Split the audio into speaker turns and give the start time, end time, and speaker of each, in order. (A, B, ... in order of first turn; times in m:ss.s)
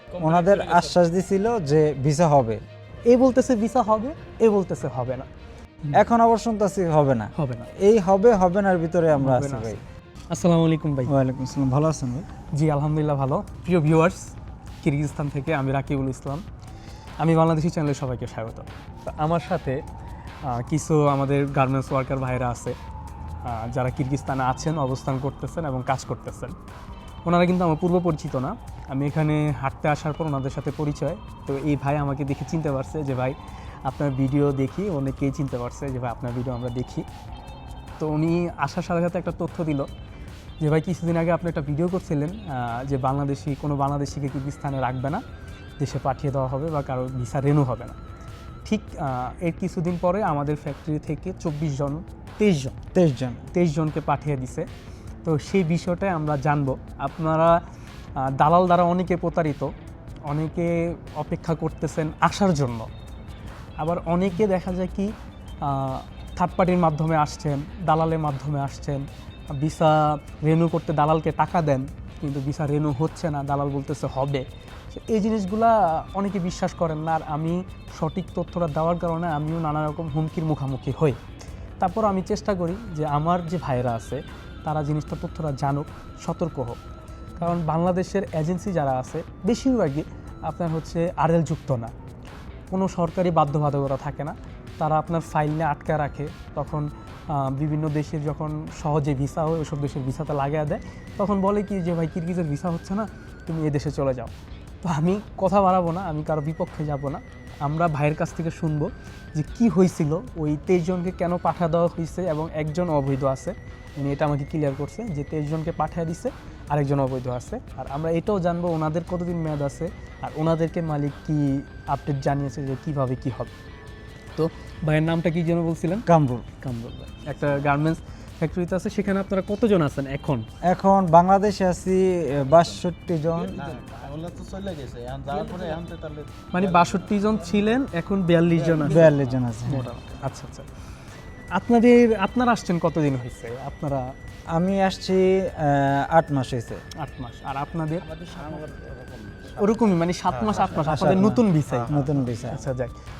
0:00.2-0:02.6 A
0:03.1-0:05.3 B
0:05.9-0:09.8 A
0:07.4-0:07.7 B
0:09.2-0:11.1 B
0:11.1-0:12.3 A
0:12.5-0:16.4 B
0:17.2-0:19.8 B
0:20.4-0:22.8 B
0:23.4-0:26.6 B
0:27.2-0:37.1 B
0:38.0-0:39.9 B
0:40.6-0:45.2 B
0:45.8-0:48.0 B
0:48.6-0:52.8 B
0:52.9-0:53.5 A
0:53.5-0:54.7 B
0:55.2-0:57.6 B
0:58.2-0:59.7 B
1:00.3-1:02.9 B
1:03.8-1:21.2 B
1:21.8-1:26.8 B
1:27.4-1:31.9 B
1:32.7-2:03.5 B
2:04.4-2:06.1 B
2:06.1-2:06.5 A
2:06.6-2:10.5 B
2:10.6-2:13.8 A
2:13.5-2:17.4 C
2:16.5-2:20.7 B
2:18.6-2:19.1 C
2:18.8-2:19.9 A
2:21.5-2:24.1 B
2:24.5-2:26.8 A
2:27.0-2:28.2 B
2:28.2-2:31.0 C
2:29.6-2:33.0 B
2:30.8-2:32.7 A
2:31.6-2:32.4 C